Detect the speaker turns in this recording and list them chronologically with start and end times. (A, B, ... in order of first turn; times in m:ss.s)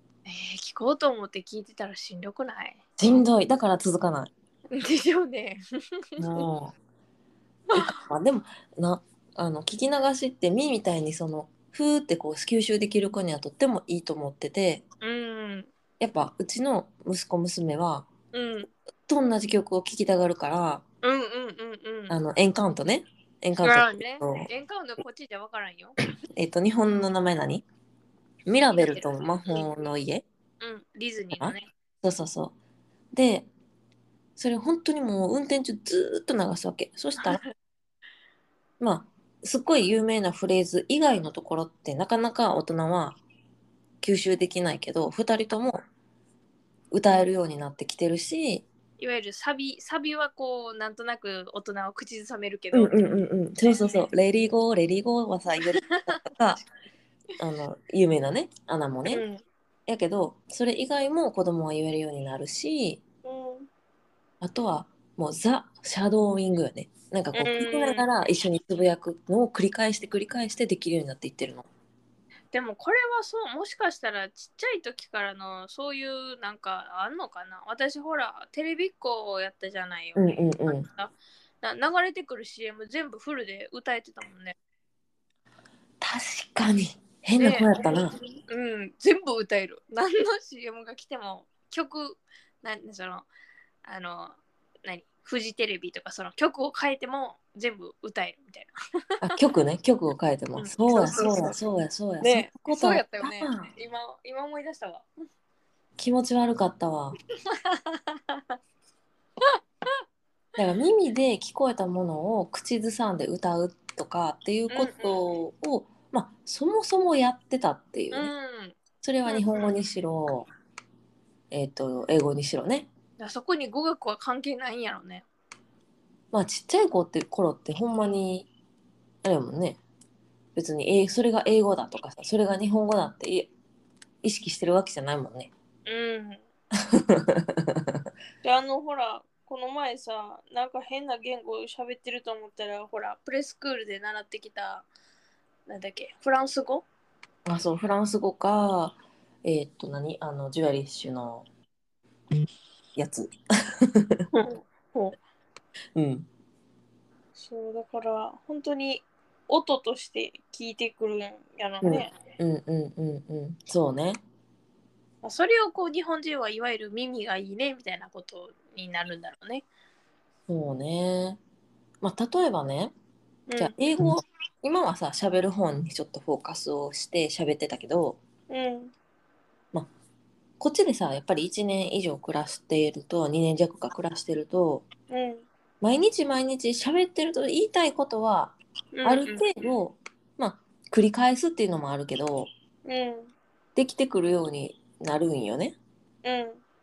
0:00.2-0:02.8 A
0:03.0-0:04.3 B
0:04.7-0:05.6 A
0:06.2-0:06.4 A
0:06.2-0:06.7 B
0:07.7-0:14.8 B
0:15.0-0:15.7 A
0:16.0-0:18.1 B
0:18.3-0:18.7 A
0:19.1-0:20.8 B
0:21.0-0:22.2 A
0:22.1-0:24.5 B
0:23.6-0:26.0 A
0:26.3-0:27.6 B
0:28.4-0:30.2 B
0:28.7-0:29.7 A
0:30.6-0:31.7 A
0:31.3-0:32.5 B
0:33.1-0:33.5 B
0:34.4-0:37.4 B
0:37.2-0:37.4 A
0:38.8-0:43.2 B
0:44.0-0:45.8 B
0:46.9-0:48.6 B
0:49.0-0:53.1 A
0:52.7-0:56.6 B
0:53.6-0:54.0 A
0:55.8-0:56.2 A
0:57.4-0:59.2 B
0:59.1-0:59.4 A
0:59.9-1:03.0 B
1:03.2-1:03.7 A
1:04.4-1:11.7 B
1:07.3-1:08.1 A
1:12.5-1:24.6 A
1:20.2-1:20.8 B
1:26.0-1:28.1 B
1:27.4-1:33.3 A
1:33.8-1:38.7 A
1:39.2-1:43.7 B
1:40.6-1:41.6 A
1:42.2-1:45.1 A
1:46.0-1:47.2 B
1:47.5-1:48.6 A
1:50.6-1:58.3 B
1:54.7-1:55.2 A
1:58.1-1:59.6 A
1:59.0-2:00.5 B
2:01.5-2:02.9 B
2:03.2-2:05.2 A
2:06.3-2:08.5 B
2:09.2-2:09.8 B
2:10.5-2:13.5 B
2:14.2-2:15.5 B
2:15.8-2:16.4 A
2:16.9-2:18.0 B
2:18.4-2:24.9 A
2:25.7-2:26.8 A
2:27.4-2:31.4 B
2:33.0-2:34.2 B
2:34.3-2:35.2 A
2:35.9-2:36.3 B
2:37.4-2:42.1 A
2:41.8-2:44.2 B
2:45.2-2:49.6 A
2:50.5-2:51.4 B
2:52.0-2:52.9 B
2:53.5-2:53.7 A
2:53.6-2:58.2 B
2:58.5-2:58.9 A
3:00.6-3:04.9 B
3:05.1-3:05.4 A
3:05.8-3:12.5 B
3:08.9-3:09.4 A
3:12.8-3:13.3 A
3:13.8-3:15.8 B
3:16.2-3:16.6 A